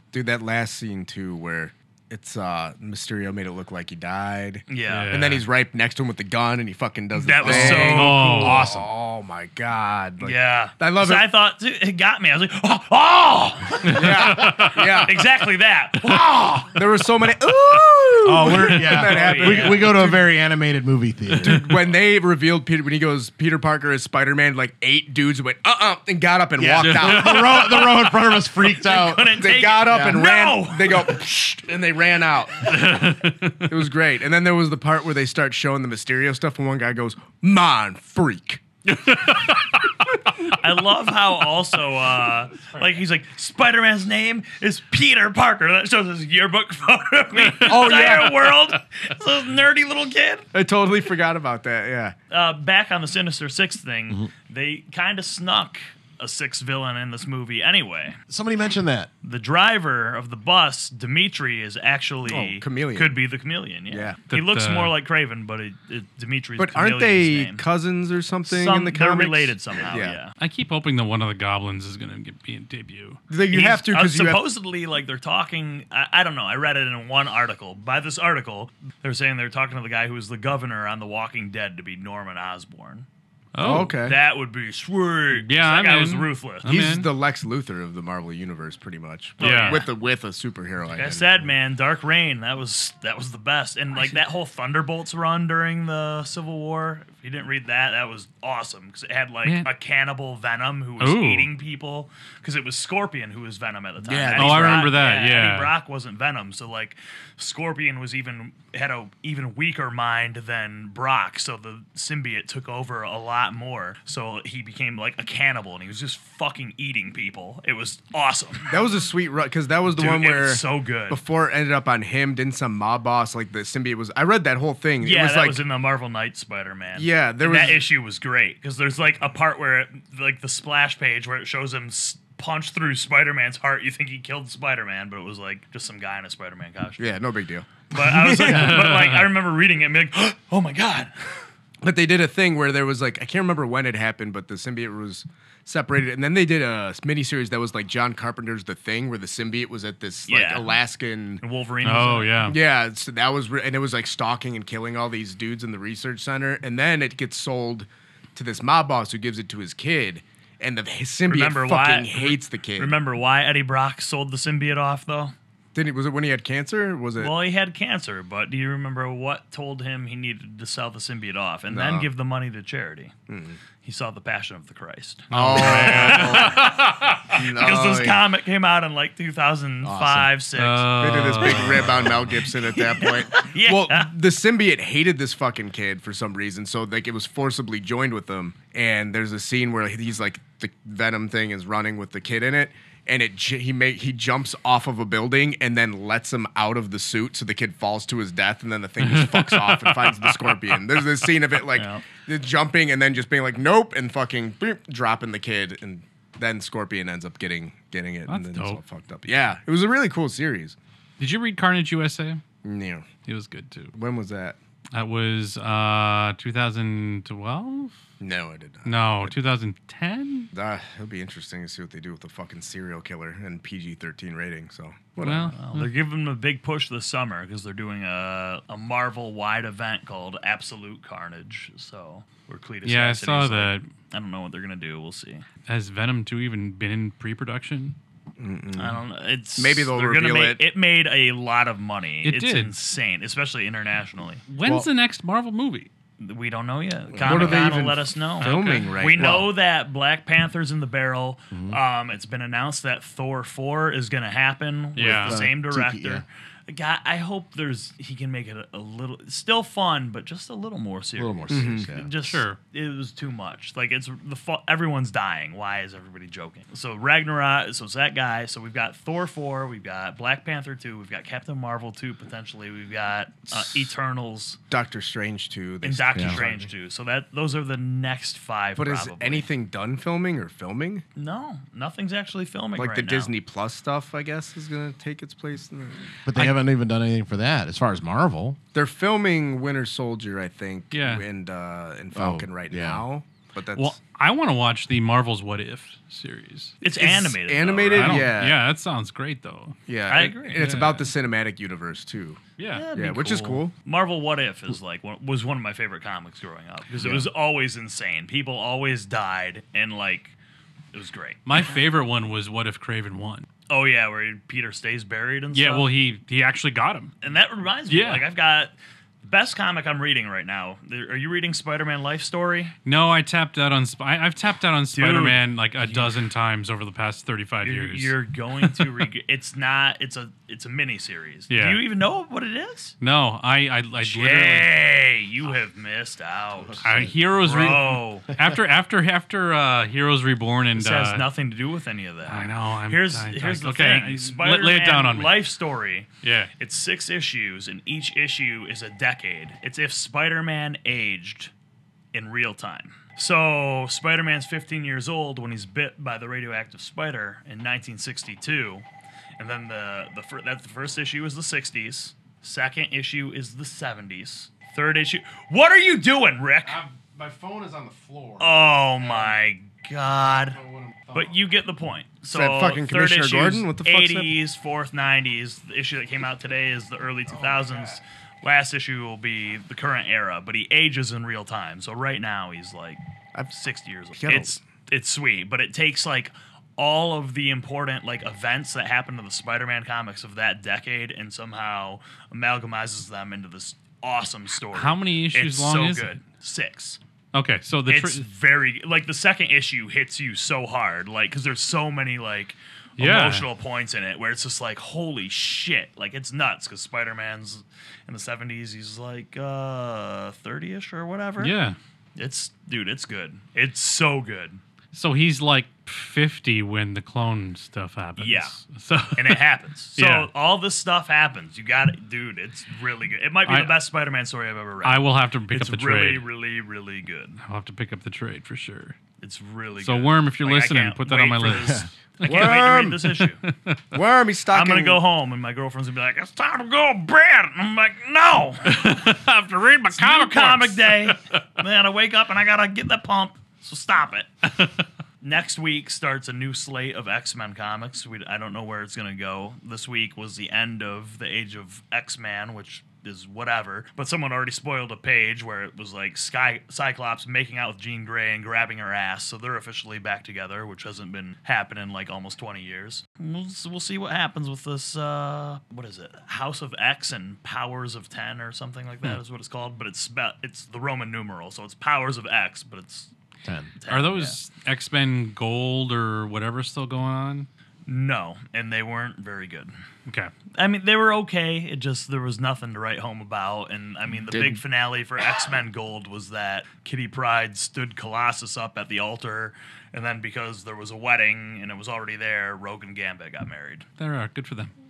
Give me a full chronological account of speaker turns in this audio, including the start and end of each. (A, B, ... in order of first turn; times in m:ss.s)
0:00.1-0:11.2 A
0:04.7-0:05.2 B
0:04.9-0:05.4 C
0:07.1-0:08.6 B
0:07.4-0:07.8 D
0:07.4-0:08.7 C
0:08.6-0:08.8 D
0:10.2-0:16.7 B
0:13.8-0:15.2 A
0:13.9-0:15.0 C
0:16.1-0:20.3 A
0:18.2-0:21.7 D
0:18.8-0:20.0 B
0:21.4-0:27.8 A
0:26.6-0:30.2 D
0:26.8-0:27.8 C
0:27.5-0:31.2 B
0:29.4-0:33.1 A
0:32.6-0:33.7 C
0:33.6-0:38.6 A
0:38.9-0:39.8 C
0:40.5-0:50.5 B
0:47.6-0:48.4 A
0:47.6-0:47.9 C
0:50.5-0:52.1 A
0:52.3-0:58.2 B
0:58.3-0:59.1 D
0:59.2-1:07.6 B
1:02.3-1:03.1 A
1:03.9-1:04.2 A
1:04.3-1:04.9 C
1:06.6-1:10.2 A
1:08.5-1:10.3 B
1:10.4-1:13.2 C
1:13.3-1:14.4 A
1:13.5-1:23.0 B
1:23.5-1:24.0 C
1:23.6-1:24.2 A
1:24.0-1:26.7 B
1:25.3-1:27.1 C
1:26.6-1:31.5 A
1:29.4-1:29.9 B
1:29.4-1:29.8 C
1:30.9-1:58.8 B
1:39.4-1:39.7 C
1:41.0-1:41.5 C
1:44.0-1:44.9 A
1:44.3-1:45.7 C
1:58.7-2:05.6 A
1:59.9-2:01.2 B
2:05.0-2:17.1 B
2:06.9-2:07.8 A
2:17.0-2:19.1 A
2:17.9-2:21.4 B
2:18.5-2:19.3 C
2:21.8-2:31.4 A
2:30.3-2:30.7 B
2:31.4-2:32.4 B
2:31.8-2:32.6 C
2:32.4-2:43.0 A
2:41.3-2:45.3 B
2:45.7-2:47.3 A
2:47.2-2:53.1 B
2:51.7-2:52.1 A
2:53.3-2:53.6 A
2:53.8-3:01.8 B
2:55.3-2:57.2 C
2:55.3-2:56.7 A
2:57.3-2:58.2 A
2:59.8-3:00.3 D
3:00.6-3:02.4 C
3:01.0-3:30.8 A
3:02.7-3:04.1 B
3:19.0-3:20.6 C
3:21.7-3:22.0 B
3:28.3-3:28.8 C
3:31.2-3:32.4 C
3:32.6-3:33.1 A
3:33.2-3:33.9 C
3:33.9-3:34.6 A
3:34.9-3:37.9 C
3:38.2-3:39.3 A
3:38.8-3:40.5 C
3:40.5-3:45.6 A
3:45.2-3:45.9 C
3:45.5-3:55.4 B
3:52.8-3:53.9 C
3:55.6-3:58.0 C
3:58.4-3:59.0 A
3:58.8-4:04.4 B
3:59.6-4:00.6 A
4:02.2-4:02.7 C
4:04.5-4:05.9 C
4:06.2-4:34.6 B
4:07.1-4:09.5 A
4:07.3-4:07.7 C
4:08.4-4:09.2 C
4:11.5-4:11.8 D
4:15.0-4:15.4 C
4:15.1-4:16.2 D
4:21.2-4:22.1 D
4:21.5-4:21.9 A
4:22.2-4:22.6 C
4:33.5-4:33.9 A
4:34.7-4:36.7 A
4:35.8-4:39.5 B
4:36.1-4:36.4 D
4:38.8-4:41.0 A
4:41.1-4:43.3 B
4:42.8-4:46.2 A
4:46.2-4:48.6 D
4:48.7-4:54.0 A
4:50.9-4:51.2 C
4:52.1-4:53.0 D
4:53.7-4:56.8 C
4:56.8-4:58.3 B
4:56.9-4:58.6 A
4:57.9-4:59.8 C
4:59.9-5:02.4 A
5:00.1-5:00.6 B
5:00.6-5:01.1 C
5:02.6-5:02.9 C
5:02.7-5:10.3 B
5:02.9-5:03.7 A
5:06.9-5:07.3 A
5:10.9-5:11.4 B
5:11.4-5:13.4 C
5:13.7-5:15.9 B
5:15.5-5:17.1 C
5:17.2-5:22.7 B
5:17.9-5:18.3 C
5:22.8-5:29.0 C
5:24.9-5:26.1 B
5:27.6-5:32.9 B
5:31.5-5:31.8 C
5:33.0-5:34.7 C
5:34.0-5:36.8 B
5:36.6-5:37.7 D
5:36.8-5:41.2 C
5:37.4-5:38.3 B
5:40.8-5:51.5 B
5:42.3-5:45.4 C
5:46.2-5:46.5 C
5:52.1-5:58.8 B
5:59.4-6:06.8 B
6:06.7-6:08.5 A
6:07.1-6:07.5 D
6:08.4-6:10.6 B
6:10.6-6:11.1 A
6:11.1-6:37.0 B
6:12.3-6:14.3 A
6:17.3-6:18.0 A
6:24.1-6:24.6 A
6:34.7-6:36.1 C
6:37.3-6:38.2 C
6:37.9-6:51.5 B
6:43.0-6:43.4 C
6:51.4-6:51.8 C
6:52.2-6:54.6 B
6:54.9-6:59.4 C
6:58.2-6:58.6 B
6:59.1-7:07.4 B
7:00.0-7:00.3 C
7:03.5-7:03.8 C
7:04.8-7:06.2 C
7:07.4-7:09.0 C
7:09.2-7:13.4 B
7:09.8-7:13.8 C
7:11.4-7:11.8 D
7:12.2-7:13.1 A
7:13.9-7:15.0 A
7:14.5-7:19.0 B
7:18.6-7:21.4 C
7:19.9-7:24.3 B
7:25.2-7:53.1 B
7:53.4-7:53.7 D
7:53.8-7:54.4 B
7:53.9-7:57.5 C
7:57.9-7:59.7 B
8:00.5-8:13.8 B
8:04.3-8:04.6 A
8:14.0-8:14.7 C